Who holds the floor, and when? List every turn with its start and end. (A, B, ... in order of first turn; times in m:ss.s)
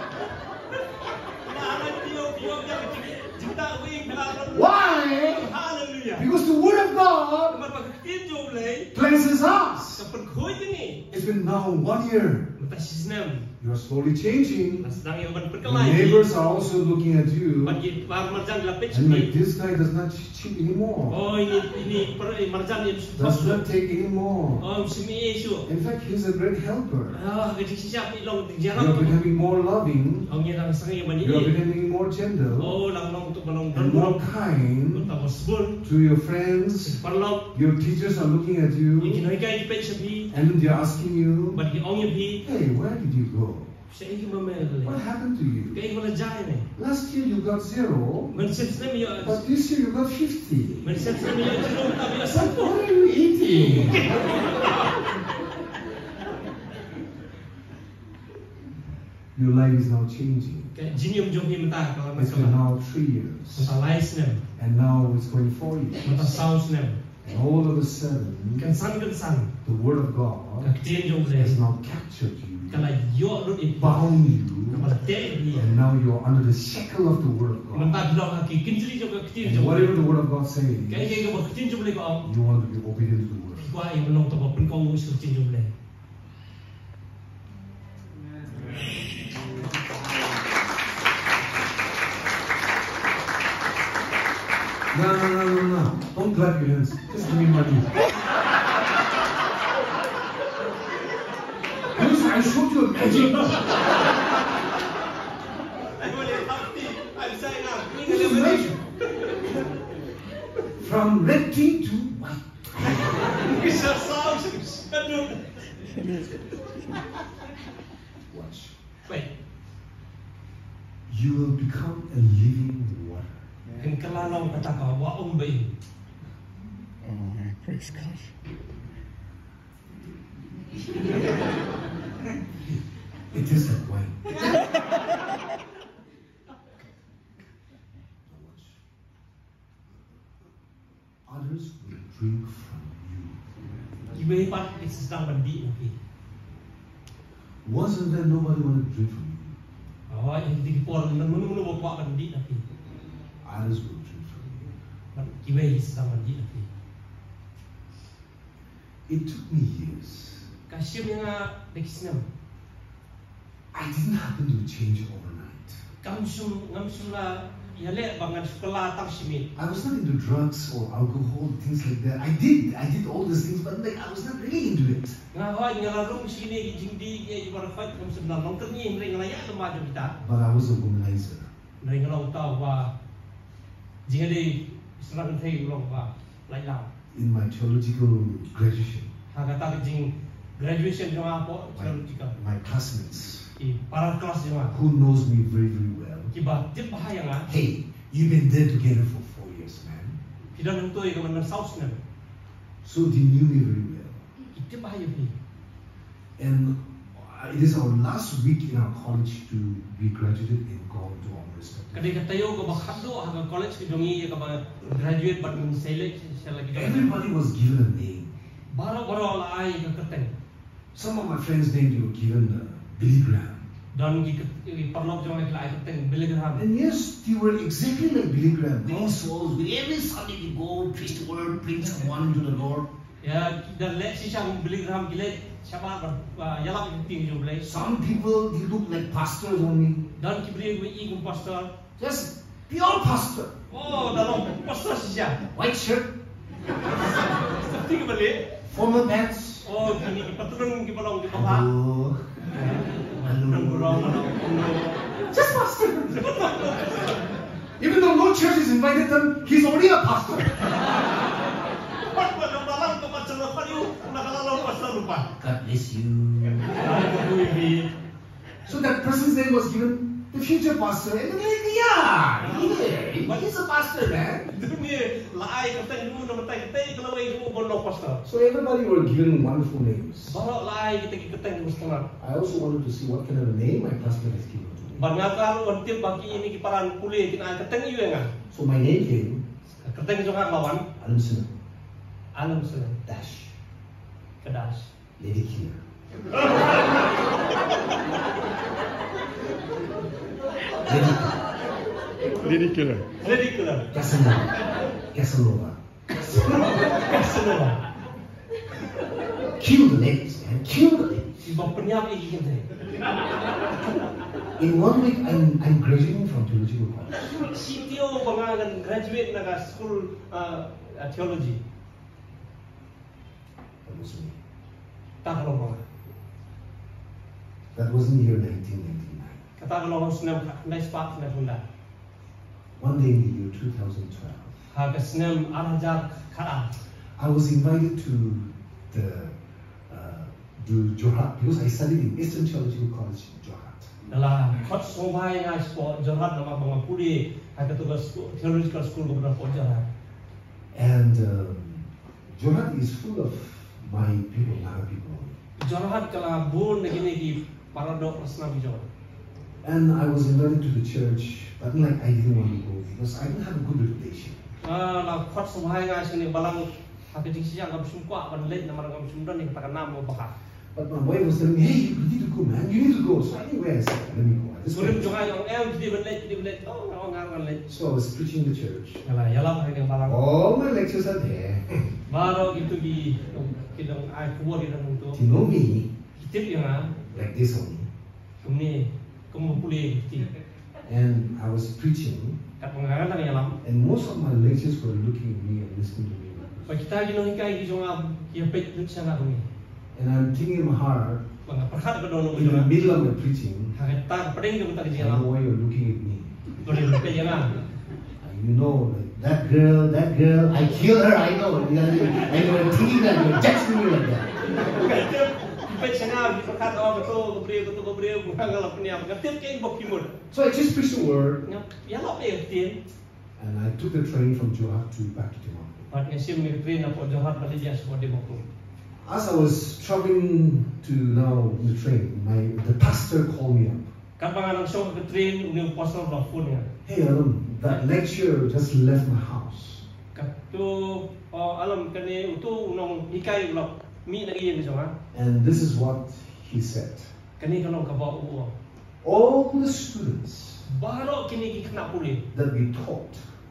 0:01.4-0:06.3 A
0:04.5-0:05.5 B
0:06.2-0:07.6 B
0:07.5-0:08.9 A
0:08.9-0:10.0 B
0:09.9-0:11.0 A
0:11.1-0:12.5 B
0:12.6-0:13.5 A
0:13.6-0:14.9 B
0:14.8-0:16.3 A
0:15.6-0:17.8 B
0:17.6-0:19.3 A
0:18.9-0:21.2 B
0:21.1-0:23.6 A
0:23.1-0:24.7 B
0:24.6-0:25.7 A
0:25.6-0:27.2 B
0:27.1-0:29.2 A
0:28.7-0:30.3 B
0:30.3-0:31.6 A
0:31.2-0:32.8 B
0:32.6-0:34.3 A
0:33.7-0:35.1 B
0:34.9-0:35.8 A
0:35.8-0:37.0 B
0:36.8-0:37.5 A
0:37.5-0:39.3 B
0:39.0-0:40.3 A
0:40.3-0:41.6 B
0:41.5-0:42.4 A
0:42.4-0:43.8 B
0:43.9-0:45.0 A
0:44.8-0:45.8 B
0:45.7-0:46.7 A
0:46.8-0:48.4 B
0:48.3-0:49.4 A
0:49.2-0:51.4 B
0:50.8-0:52.8 A
0:52.2-0:54.4 B
0:53.4-0:54.8 A
0:59.3-1:00.7 B
1:00.7-1:02.6 A
1:02.1-1:03.7 B
1:03.5-1:04.4 A
1:04.6-1:06.4 B
1:06.0-1:07.0 A
1:07.2-1:08.7 B
1:08.6-1:09.5 A
1:09.6-1:10.8 B
1:10.6-1:11.6 A
1:11.3-1:12.9 B
1:12.7-1:14.2 A
1:13.8-1:14.9 B
1:14.7-1:15.6 A
1:15.5-1:18.1 B
1:17.7-1:20.1 A
1:19.4-1:21.3 B
1:20.9-1:22.3 A
1:22.2-1:23.7 B
1:23.6-1:25.7 A
1:34.9-1:37.9 B
1:41.9-1:43.8 B
1:43.3-1:44.0 A
1:46.0-1:49.6 A
1:48.0-1:48.8 B
1:50.8-1:53.4 B
1:52.8-1:55.4 A
1:58.3-1:58.8 B
2:01.1-2:03.5 B
2:03.8-2:05.7 A
2:07.0-2:08.3 C
2:12.5-2:12.8 B
2:13.3-2:14.5 B
2:18.2-2:18.8 B
2:21.3-2:23.5 B
2:24.1-2:26.0 A
2:27.6-2:29.6 B
2:30.1-2:32.6 A
2:33.4-2:34.8 B
2:35.1-2:36.7 A
2:39.1-2:40.5 B
2:40.7-2:42.2 A
2:43.7-2:45.8 B
2:46.0-2:49.5 A
2:49.6-2:55.2 B
2:55.3-3:00.2 A
3:00.2-3:01.5 B
3:01.8-3:02.9 A
3:04.0-3:06.9 A
3:07.1-3:09.1 B
3:09.3-3:12.3 A
3:11.7-3:13.5 B
3:13.6-3:14.8 A
3:14.7-3:16.3 B
3:16.3-3:17.5 A
3:17.5-3:20.2 B
3:20.5-3:22.0 A
3:22.8-3:24.2 B
3:24.5-3:25.3 A
3:26.4-3:32.5 B
3:31.9-3:37.2 A
3:36.7-3:38.3 B
3:38.7-3:40.3 A
3:40.9-3:43.6 B
3:43.9-3:46.7 A
3:46.5-3:52.9 B
3:53.2-3:57.7 A
3:57.6-4:00.1 B
4:00.2-4:01.7 A
4:02.0-4:03.5 B
4:03.7-4:05.4 A
4:05.5-4:06.1 B
4:07.0-4:08.5 A
4:08.6-4:09.7 B
4:09.6-4:11.7 A
4:11.3-4:14.6 B
4:12.6-4:15.1 A
4:15.3-4:16.5 B
4:16.1-4:17.2 A
4:17.8-4:21.0 B
4:22.0-4:25.4 A
4:25.4-4:27.0 B
4:26.7-4:27.9 A
4:28.6-4:34.5 B
4:32.4-4:38.2 A
4:38.2-4:40.4 B
4:40.3-4:42.1 A
4:42.2-4:45.2 B
4:45.0-4:48.3 A
4:48.5-4:49.4 B
4:49.8-4:50.8 A
4:51.0-4:51.5 B
4:52.3-4:53.0 A
4:53.0-4:53.6 B
4:54.4-4:54.9 A
4:55.2-4:55.8 B
5:00.8-5:01.4 B
5:02.4-5:03.2 C
5:03.2-5:03.9 A
5:03.9-5:04.6 B
5:05.1-5:05.8 B
5:06.1-5:07.8 A
5:09.6-5:11.6 B
5:11.4-5:12.7 A
5:14.6-5:17.4 B
5:17.2-5:21.6 A
5:23.8-5:24.4 B
5:25.2-5:25.8 A
5:27.7-5:29.4 B
5:29.6-5:31.6 A
5:32.8-5:34.5 B
5:34.7-5:36.7 A
5:37.2-5:39.3 B
5:39.9-5:44.0 B
5:44.1-5:49.9 A
5:50.7-5:55.4 B
5:55.6-5:58.9 A
5:59.6-6:04.4 B
6:04.6-6:10.3 A
6:10.7-6:15.2 B
6:14.7-6:17.6 A
6:17.7-6:19.0 B
6:19.0-6:20.2 A
6:20.0-6:21.8 B
6:22.1-6:25.2 A
6:25.1-6:25.9 B
6:26.2-6:27.0 A
6:27.1-6:27.9 B
6:28.4-6:30.3 A
6:30.8-6:32.4 B
6:32.6-6:33.6 A
6:33.6-6:36.8 B
6:36.7-6:39.5 A
6:39.9-6:41.2 B
6:41.4-6:43.1 A
6:42.3-6:43.7 B
6:43.7-6:45.3 A
6:44.9-6:47.2 B
6:46.6-6:47.6 A
6:48.2-6:54.4 B
6:54.5-7:00.1 A
7:00.3-7:01.4 B
7:01.4-7:02.8 A
7:03.4-7:05.9 B
7:05.9-7:08.4 A
7:09.0-7:13.9 B
7:14.2-7:16.7 A
7:16.8-7:19.8 B
7:20.1-7:24.9 A
7:25.1-7:27.1 B
7:27.4-7:28.5 A
7:29.0-7:30.6 B
7:30.7-7:32.2 A
7:32.3-7:33.2 B